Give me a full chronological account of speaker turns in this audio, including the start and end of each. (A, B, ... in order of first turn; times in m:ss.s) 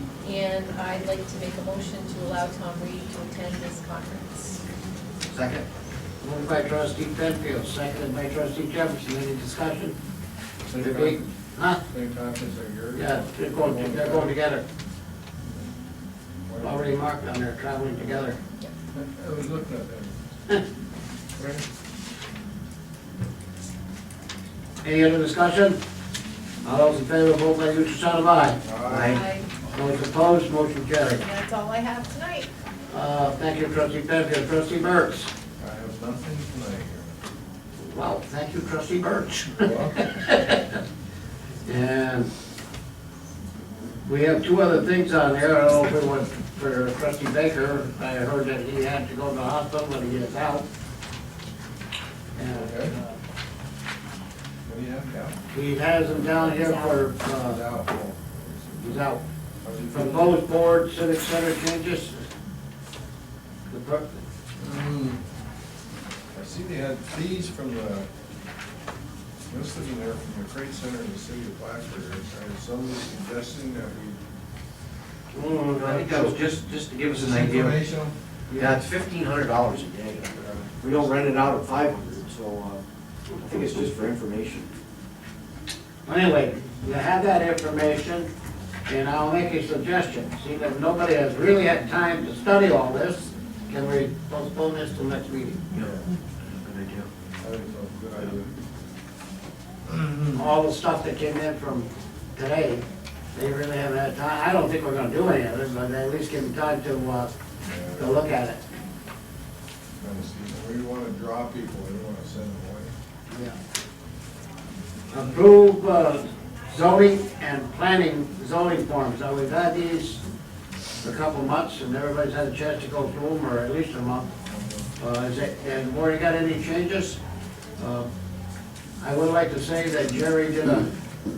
0:00.2-0:04.6 A
0:05.3-0:05.6 B
0:06.2-0:10.0 C
0:10.7-0:11.3 D
0:10.8-0:11.8 C
0:11.9-0:14.3 D
0:13.0-0:14.6 C
0:16.5-0:16.9 D
0:16.6-0:18.4 C
0:18.9-0:20.2 D
0:21.4-0:21.6 D
0:24.8-0:25.8 C
0:26.6-0:28.6 C
0:28.6-0:29.2 D
0:28.9-0:29.2 B
0:29.1-0:29.5 A
0:29.6-0:31.2 C
0:31.1-0:32.5 A
0:32.9-0:35.3 C
0:35.6-0:37.2 D
0:37.8-0:40.6 C
0:39.6-0:40.2 D
0:41.6-0:42.3 C
0:44.0-0:50.6 C
0:52.4-0:53.2 C
0:52.5-0:53.0 D
0:54.6-0:55.4 D
0:55.5-0:57.6 C
0:56.0-0:56.6 D
0:56.5-0:57.0 A
0:57.2-0:59.1 D
0:58.8-0:59.2 C
0:59.6-1:00.4 D
0:59.9-1:02.2 C
1:03.7-1:04.2 C
1:04.6-1:05.2 D
1:06.3-1:08.1 D
1:09.5-1:14.2 D
1:15.3-1:17.8 B
1:15.8-1:16.4 D
1:17.1-1:18.2 D
1:18.5-1:18.8 C
1:18.6-1:24.7 B
1:20.2-1:21.3 D
1:26.0-1:28.3 C
1:28.9-1:35.6 C
1:35.7-1:37.1 B
1:35.7-1:36.1 D
1:37.4-1:38.5 D
1:39.9-1:40.4 D
1:40.4-1:47.3 C
1:47.6-1:48.2 D
1:48.0-1:48.6 C
1:50.0-1:52.9 D
1:53.3-1:53.6 C
1:55.1-2:00.2 C
2:01.0-2:04.3 C
2:04.5-2:04.9 D
2:05.0-2:07.2 C
2:07.8-2:08.1 C
2:09.0-2:10.9 C